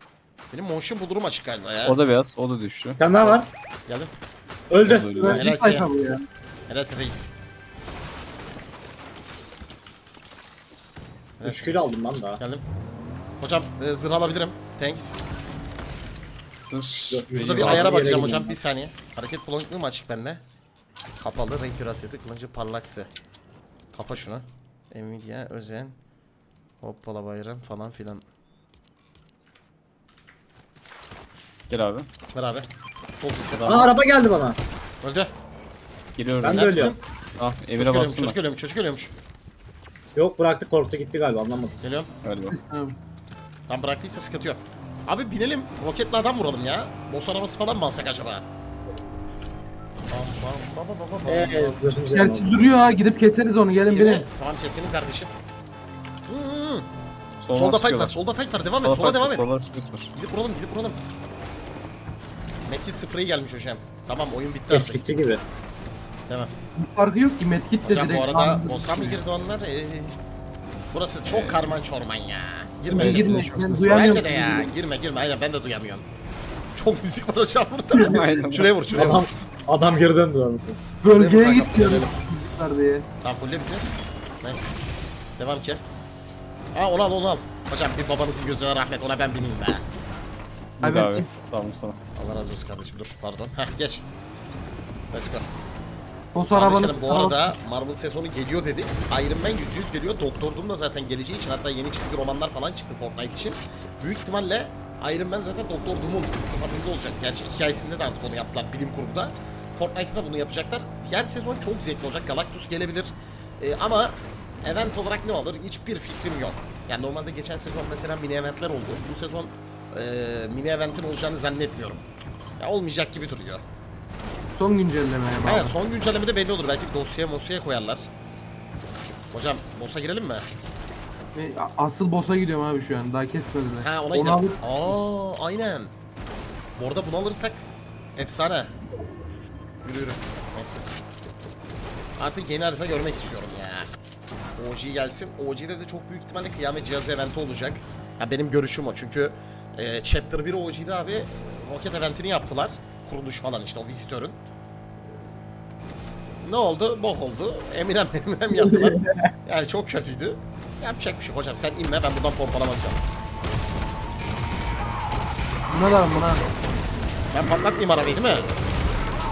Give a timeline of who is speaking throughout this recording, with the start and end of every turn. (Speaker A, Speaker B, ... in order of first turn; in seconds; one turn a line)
Speaker A: 0.5-2.0
Speaker B: 1.8-3.0
Speaker C: 3.0-3.5
Speaker A: 3.1-4.1
Speaker C: 4.7-5.5
Speaker B: 4.8-5.4
Speaker D: 5.2-6.2
Speaker A: 5.4-5.9
Speaker A: 6.7-7.3
Speaker A: 11.4-12.6
Speaker C: 11.4-12.4
Speaker A: 13.4-15.2
Speaker B: 16.7-18.1
Speaker C: 17.1-18.6
Speaker A: 17.3-20.4
Speaker A: 21.2-23.1
Speaker A: 23.9-25.9
Speaker A: 26.8-28.2
Speaker B: 31.7-32.1
Speaker A: 32.3-32.7
Speaker A: 33.2-33.9
Speaker B: 33.5-33.9
Speaker C: 33.6-34.6
Speaker A: 35.0-35.3
Speaker B: 36.2-36.9
Speaker C: 36.4-37.0
Speaker A: 36.5-37.0
Speaker B: 37.4-38.4
Speaker A: 37.8-39.1
Speaker C: 40.1-41.7
Speaker A: 41.8-42.1
Speaker B: 42.2-42.5
Speaker D: 42.5-43.0
Speaker A: 43.7-48.4
Speaker A: 50.1-51.8
Speaker C: 51.3-52.7
Speaker D: 52.1-54.2
Speaker A: 53.9-55.3
Speaker A: 56.3-56.9
Speaker B: 57.4-58.1
Speaker A: 57.5-59.5
Speaker B: 58.8-60.1
Speaker A: 60.1-61.0
Speaker A: 62.6-65.0
Speaker C: 64.7-65.4
Speaker D: 66.8-69.2
Speaker A: 67.8-70.2
Speaker A: 70.9-73.3
Speaker B: 71.2-71.7
Speaker B: 72.9-74.3
Speaker D: 72.9-74.7
Speaker A: 73.9-76.0
Speaker A: 76.7-79.3
Speaker B: 77.9-79.1
Speaker C: 78.9-80.8
Speaker D: 81.0-83.0
Speaker A: 81.1-82.2
Speaker A: 83.2-83.8
Speaker A: 84.4-84.7
Speaker A: 85.4-85.8
Speaker A: 86.7-89.8
Speaker B: 90.8-92.0
Speaker D: 90.8-91.3
Speaker A: 92.2-94.0
Speaker A: 95.1-95.5
Speaker D: 96.3-97.5
Speaker A: 96.5-122.0
Speaker A: 122.6-123.6
Speaker D: 124.5-125.7
Speaker A: 125.4-128.1
Speaker A: 129.3-130.5
Speaker D: 131.3-134.6
Speaker A: 133.8-135.9
Speaker A: 136.8-137.6
Speaker A: 138.2-138.7
Speaker A: 139.8-140.8
Speaker A: 142.2-143.9
Speaker A: 144.6-154.4
Speaker A: 156.4-163.0
Speaker D: 158.6-159.2
Speaker D: 165.7-166.4
Speaker A: 167.3-168.5